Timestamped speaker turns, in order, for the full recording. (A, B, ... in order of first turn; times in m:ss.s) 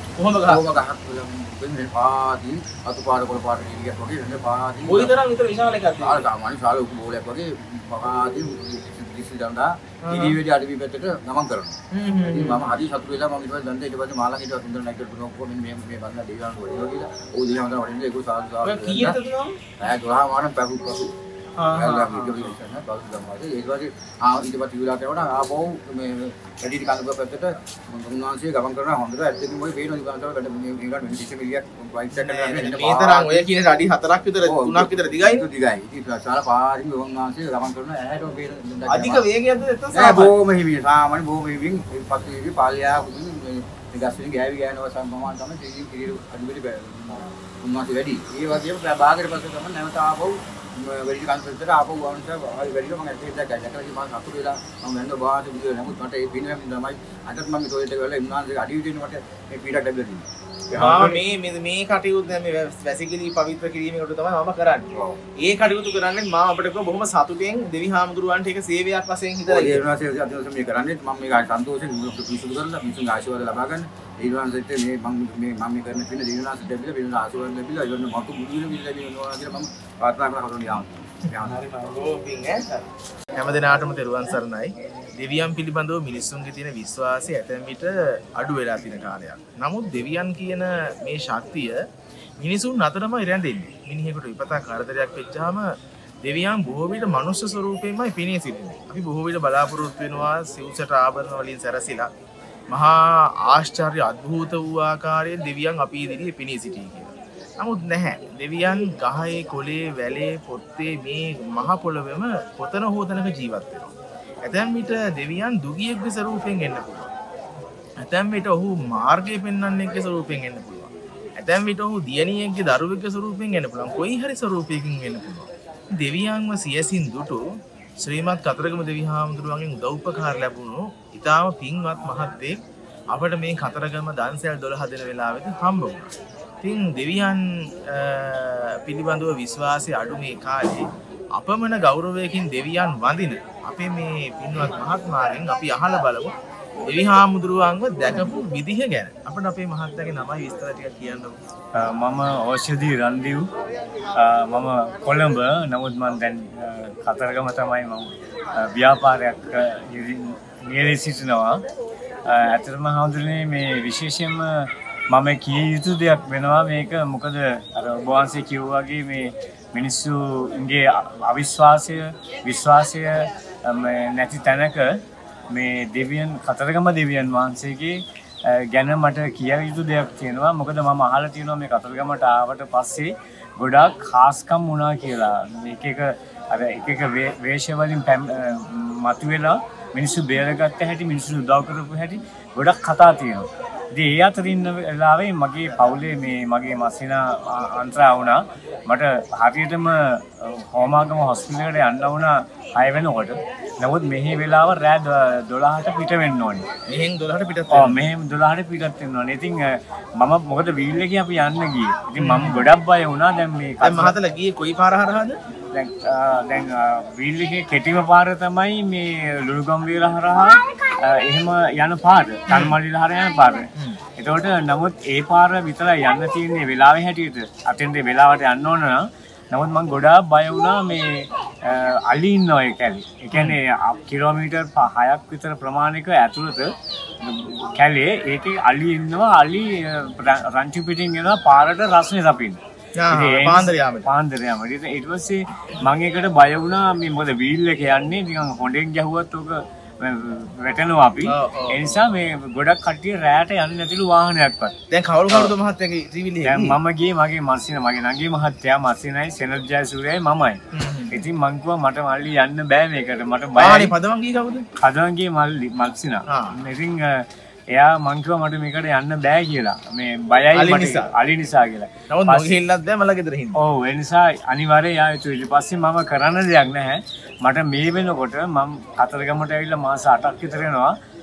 0:00.2-0:00.6 A
0:00.4-0:05.1 B
0:04.8-0:06.2 A
0:06.0-0:19.2 B
0:10.0-0:10.4 A
0:11.9-0:12.7 A
0:18.6-0:19.6 A
0:19.8-0:21.1 B
0:21.6-0:22.5 A
0:21.7-0:33.5 B
0:32.1-0:35.4 A
0:34.4-0:39.2 B
0:38.9-0:40.3 A
0:39.9-1:01.2 B
1:00.7-1:04.9 A
1:04.9-1:05.2 B
1:05.4-1:09.8 A
1:09.5-1:21.6 B
1:21.3-1:31.8 A
1:32.4-1:35.7 A
1:36.2-1:42.1 A
1:42.7-1:53.9 A
1:54.4-1:57.1 A
1:58.0-2:07.4 A
2:08.0-2:16.1 A
2:16.6-2:31.4 A
2:31.7-2:33.5 C
2:34.1-2:41.6 C
2:42.2-3:26.7 C
3:26.9-3:28.0 A
3:27.7-3:34.2 C
3:32.2-3:32.7 A
3:33.8-3:35.4 A
3:35.7-4:14.7 C
3:42.5-3:42.8 A
4:03.0-4:04.1 A
4:11.2-4:11.8 A
4:14.9-4:16.8 A
4:16.4-4:20.6 C
4:20.7-4:21.2 A
4:21.1-4:23.9 C
4:23.6-4:24.7 A
4:24.8-4:32.6 C
4:26.3-4:26.5 A
4:30.5-4:31.1 A
4:32.1-4:33.6 A
4:33.5-4:40.9 C